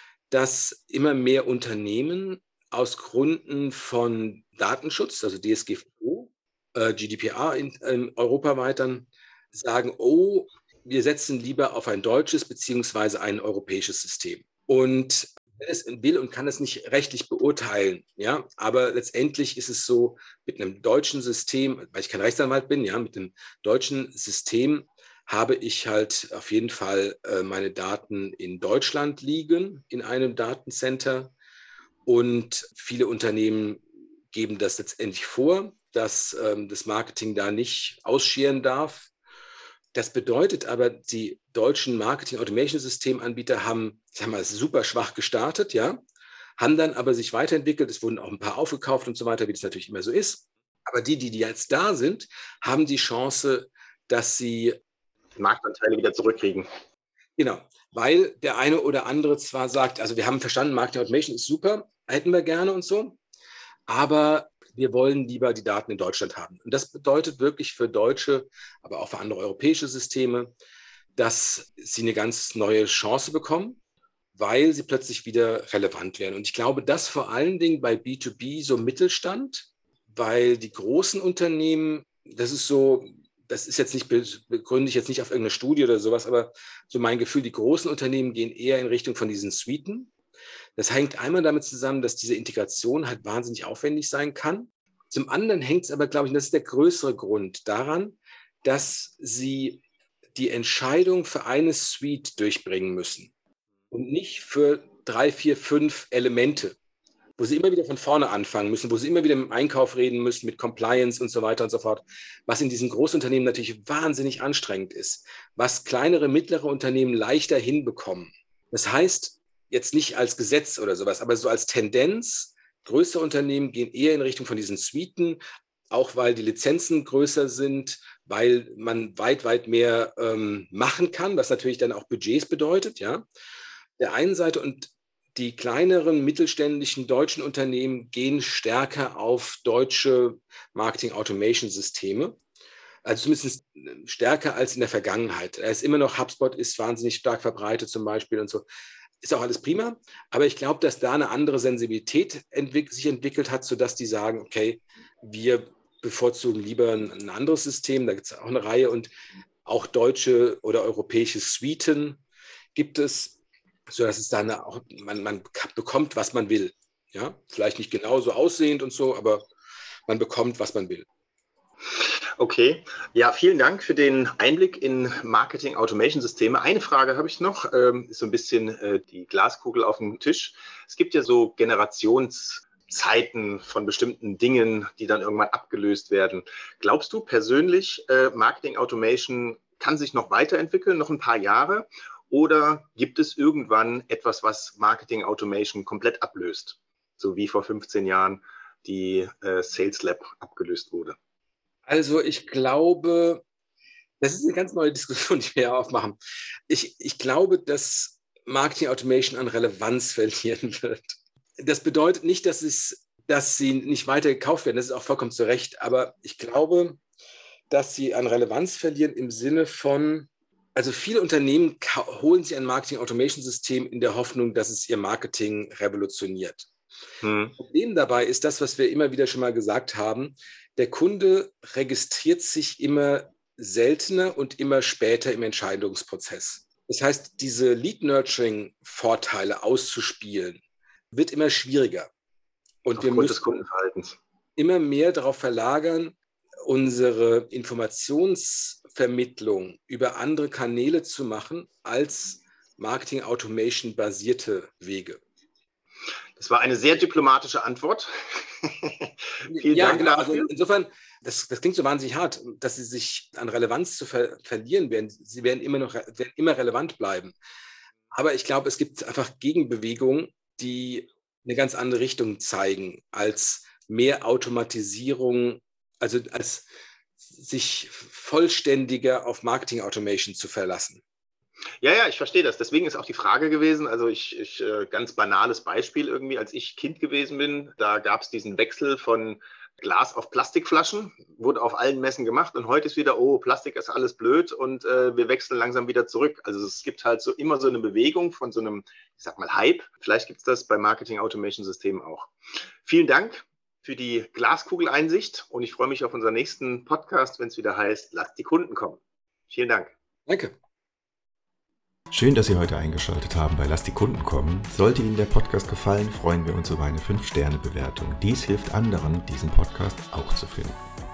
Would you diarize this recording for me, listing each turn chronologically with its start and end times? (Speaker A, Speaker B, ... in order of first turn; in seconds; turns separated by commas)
Speaker A: 0.3-31.3, Speaker A: 32.0-39.1, Speaker A: 39.9-46.0, Speaker A: 46.6-54.8, Speaker B: 55.4-56.7, Speaker A: 57.4-63.2, Speaker A: 63.9-70.5, Speaker A: 71.2-73.8, Speaker A: 74.3-90.1, Speaker A: 90.8-99.8, Speaker A: 100.3-103.3, Speaker A: 103.9-106.8, Speaker A: 107.4-125.4, Speaker A: 125.9-133.2, Speaker A: 134.0-142.4, Speaker A: 143.0-148.7, Speaker A: 149.2-159.1, Speaker A: 159.7-162.2, Speaker A: 162.7-163.4, Speaker A: 163.9-169.5, Speaker A: 170.1-171.1, Speaker B: 172.0-201.2, Speaker A: 201.8-203.4, Speaker A: 204.2-206.2, Speaker A: 206.7-217.0, Speaker A: 217.7-226.7, Speaker B: 227.2-227.6, Speaker A: 227.6-242.1, Speaker A: 242.8-243.4, Speaker B: 242.9-244.2, Speaker A: 244.6-255.2, Speaker B: 256.4-260.5, Speaker A: 259.4-267.3, Speaker A: 268.1-276.7, Speaker A: 277.2-281.0, Speaker B: 281.8-302.3, Speaker B: 302.8-309.9, Speaker A: 310.3-310.6, Speaker C: 312.1-320.8